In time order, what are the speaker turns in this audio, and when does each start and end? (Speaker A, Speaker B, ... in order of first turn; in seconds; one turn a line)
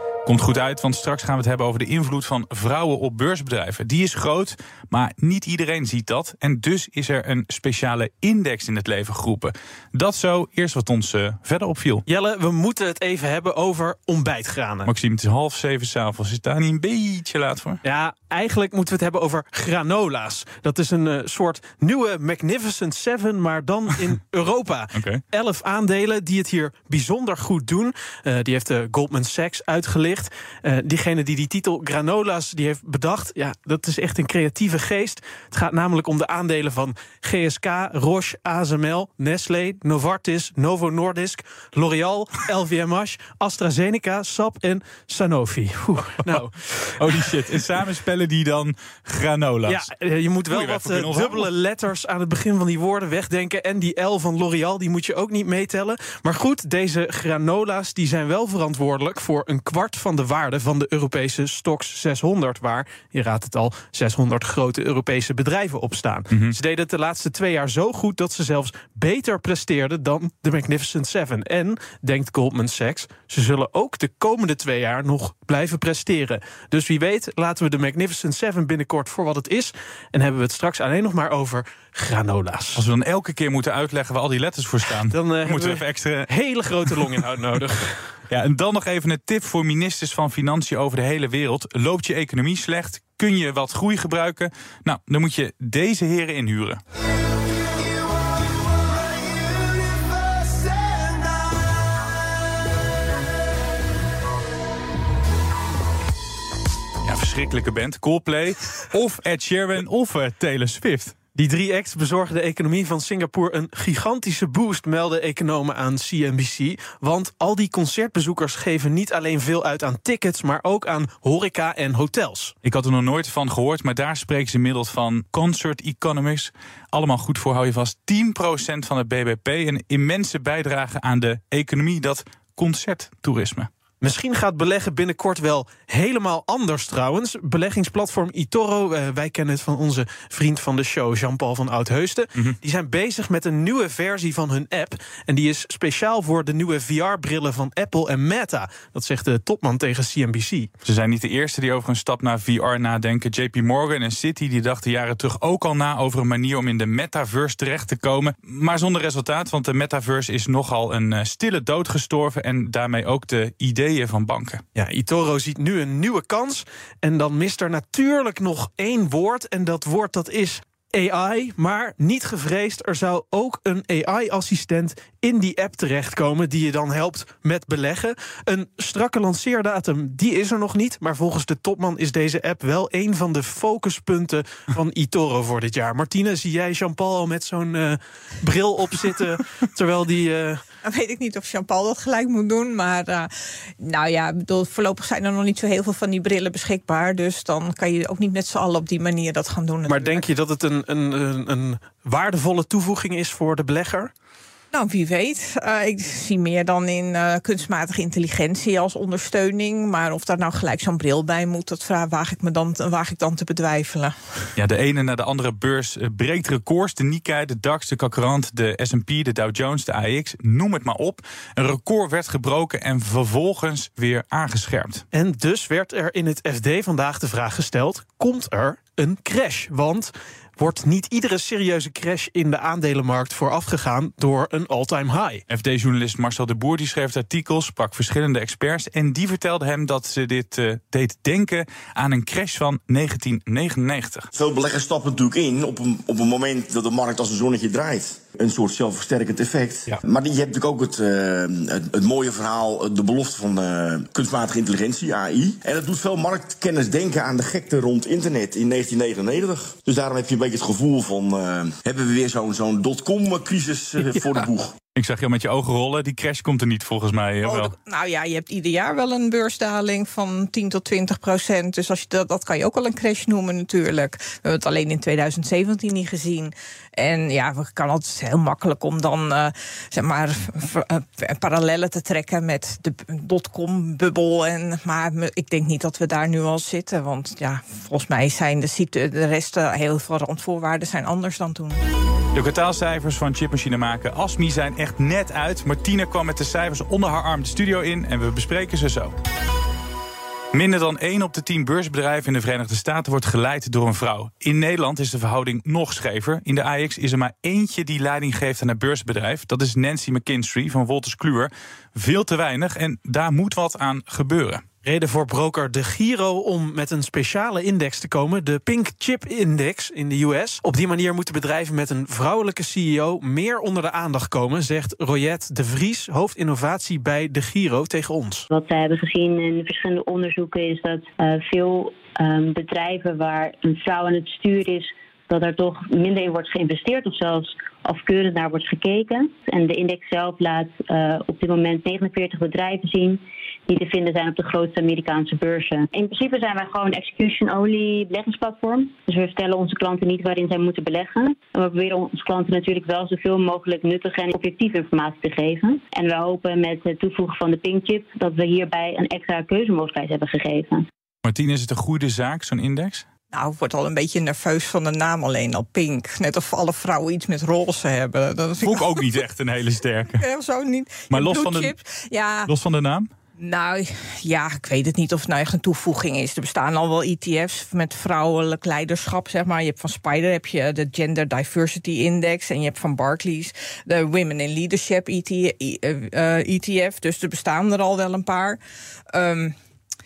Speaker A: 0.2-12.0
Speaker B: 12.1-14.9
Speaker A: 14.8-17.8
Speaker B: 17.8-47.3
Speaker A: 24.9-25.2
Speaker A: 46.2-49.8
Speaker B: 49.6-82.8
Speaker A: 50.5-51.5
Speaker A: 82.7-86.2
Speaker B: 85.0-88.1
Speaker A: 88.3-96.8
Speaker A: 107.0-111.1
Speaker B: 111.3-122.5
Speaker A: 122.6-133.7
Speaker B: 134.0-150.7
Speaker A: 150.8-164.6
Speaker B: 164.8-190.6
Speaker C: 190.8-200.2
Speaker B: 199.9-204.1
Speaker C: 204.7-214.1
Speaker A: 214.6-225.0
Speaker B: 225.1-235.4
Speaker A: 235.5-244.3
Speaker D: 244.3-264.7
Speaker A: 264.9-267.7
Speaker C: 267.4-291.8
Speaker A: 292.3-299.1
Speaker A: 300.5-314.6
Speaker B: 314.8-328.5
Speaker E: 328.5-360.9
Speaker A: 361.2-363.1
Speaker C: 363.3-369.0
Speaker A: 368.6-370.2
Speaker C: 370.2-372.5
Speaker A: 371.1-371.7
Speaker A: 372.5-373.1
Speaker C: 373.4-388.6
Speaker C: 389.1-389.6